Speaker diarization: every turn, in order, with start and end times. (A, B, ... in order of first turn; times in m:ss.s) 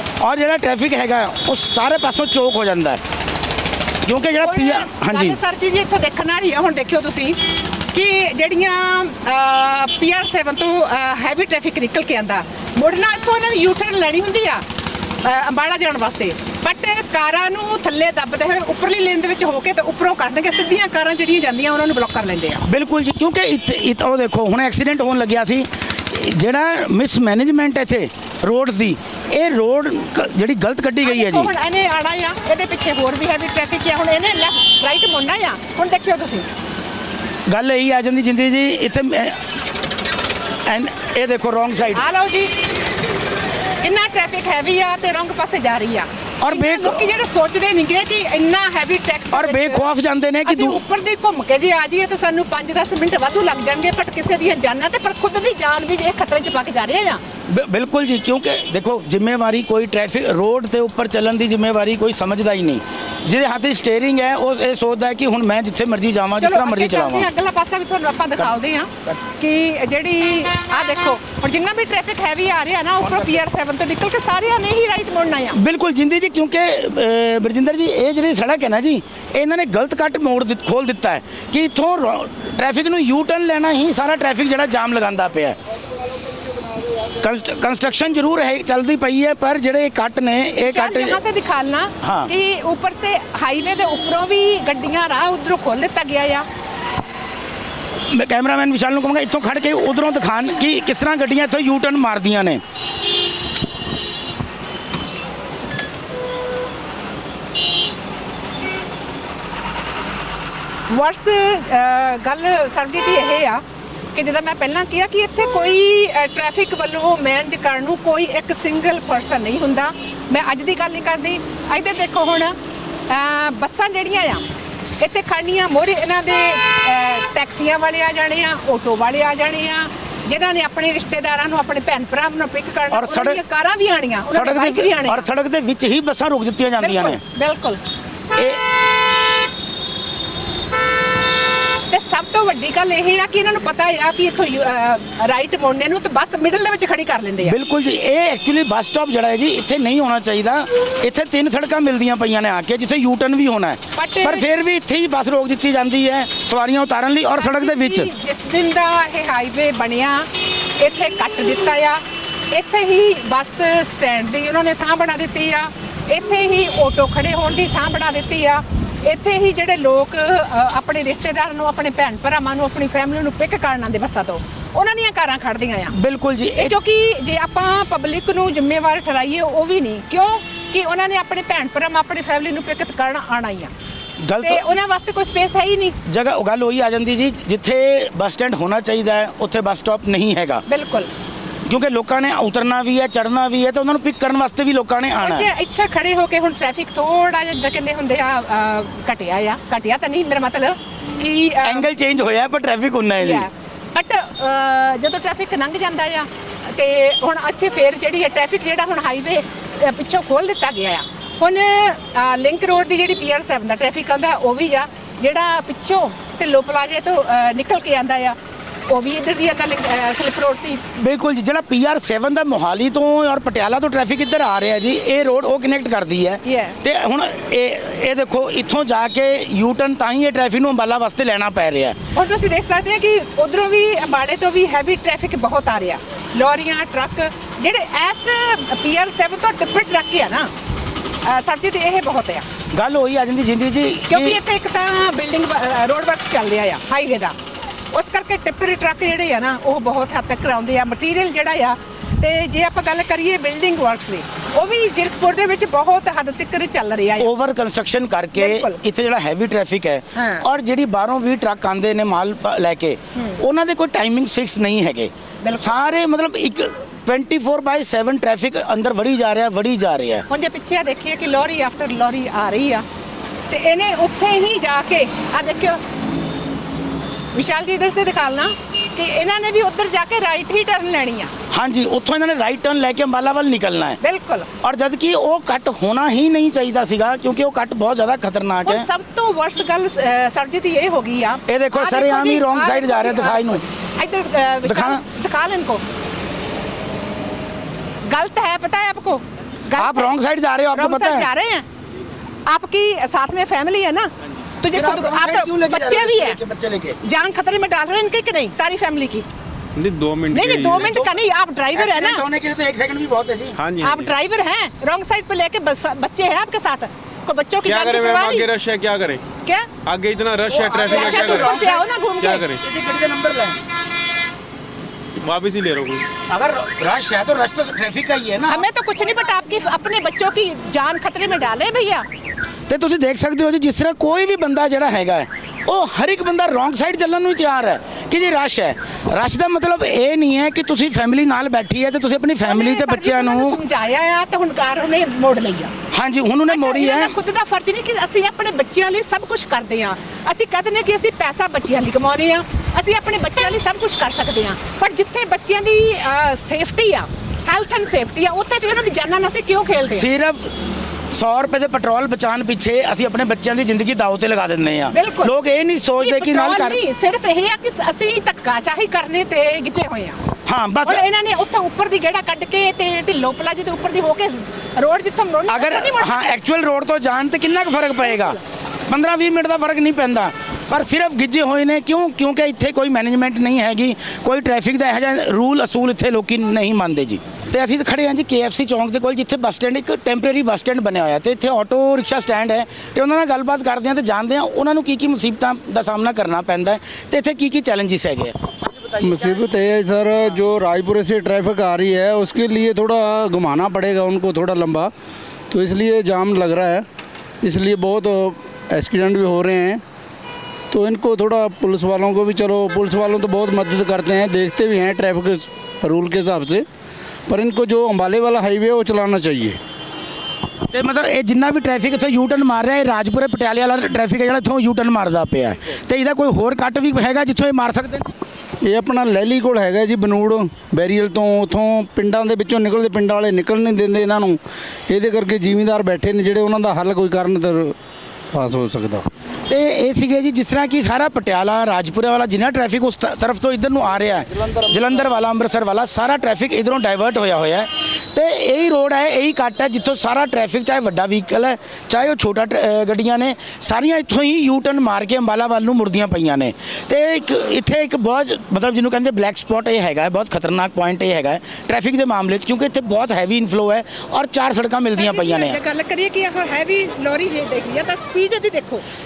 0:00.2-0:03.0 A
0:04.0-0:05.4 A
0:04.4-0:14.6 B
0:15.2-0:22.6 B
0:22.6-0:31.5 A
0:31.0-0:36.4 B
0:37.5-0:39.4 A
0:40.6-0:42.0 A
0:41.9-0:42.5 B
0:43.8-0:49.8 B
0:46.4-0:47.0 A
0:49.3-0:50.8 A
0:50.4-0:57.2 B
0:57.5-1:07.3 A
1:06.4-1:15.6 B
1:15.5-1:25.6 A
1:27.2-1:31.2 A
1:30.6-1:36.4 B
1:32.0-1:32.3 A
1:38.1-1:42.6 A
1:50.9-1:53.6 B
1:54.1-2:02.5 B
2:03.1-2:04.4 B
2:05.0-2:15.3 B
2:12.9-2:13.4 A
2:14.3-2:17.2 A
2:16.8-2:17.8 B
2:18.4-2:18.6 A
2:21.9-2:27.6 B
2:27.4-2:38.1 A
2:34.0-2:34.4 B
2:37.4-2:40.3 B
2:40.8-2:55.9 B
2:55.9-2:56.8 A
2:56.6-3:03.7 B
3:04.2-3:04.6 A
3:04.4-3:06.0 B
3:06.0-3:10.6 A
3:10.7-3:11.1 B
3:11.7-3:15.5 A
3:15.2-3:21.9 B
3:21.6-3:23.5 A
3:23.2-3:38.4 B
3:38.9-3:40.8 B
3:41.0-3:52.0 A
3:46.4-3:46.8 B
3:52.1-4:00.5 B
4:01.2-4:02.4 B
4:02.7-4:04.4 A
4:04.1-4:07.3 B
4:07.9-4:17.3 B
4:17.2-4:30.2 A
4:18.4-4:18.8 B
4:20.2-4:20.4 B
4:25.4-4:25.7 B
4:30.3-4:32.8 B
4:33.5-4:35.8 B
4:37.3-4:41.3 B
4:41.5-4:44.0 A
4:44.0-4:44.5 B
4:44.6-4:48.8 A
4:48.6-4:55.8 B
4:51.5-4:53.6 A
4:54.6-4:55.0 A
4:58.1-5:00.1 B
4:59.7-5:01.3 A
5:00.7-5:01.6 B
5:02.5-5:04.1 B
5:04.6-5:06.4 B
5:04.7-5:07.0 A
5:07.0-5:09.2 B
5:09.8-5:11.0 C
5:10.3-5:12.2 B
5:10.7-5:11.1 A
5:11.7-5:13.6 A
5:13.6-5:14.1 C
5:13.8-5:18.5 B
5:17.6-5:19.2 C
5:19.8-5:21.6 C
5:20.5-5:21.8 A
5:20.7-5:22.4 B
5:22.2-5:22.6 C
5:22.6-5:23.6 A
5:25.2-5:26.0 C
5:26.3-5:28.6 A
5:28.5-5:32.0 B
5:32.7-5:43.6 A
5:42.4-5:45.7 B
5:45.9-5:47.1 A
5:46.5-6:00.0 B
5:59.9-6:00.5 A
6:01.1-6:06.8 A
6:04.9-6:05.3 B
6:06.0-6:10.2 B
6:10.5-6:11.0 A
6:10.8-6:16.3 B
6:15.5-6:39.5 A
6:39.0-6:44.9 D
6:45.5-6:46.8 D
6:47.4-6:49.8 D
6:50.7-6:56.6 D
6:57.3-6:59.6 D
7:00.7-7:08.1 A
7:08.6-7:17.7 D
7:18.3-7:19.0 D
7:19.5-7:45.6 A
7:44.9-7:48.8 B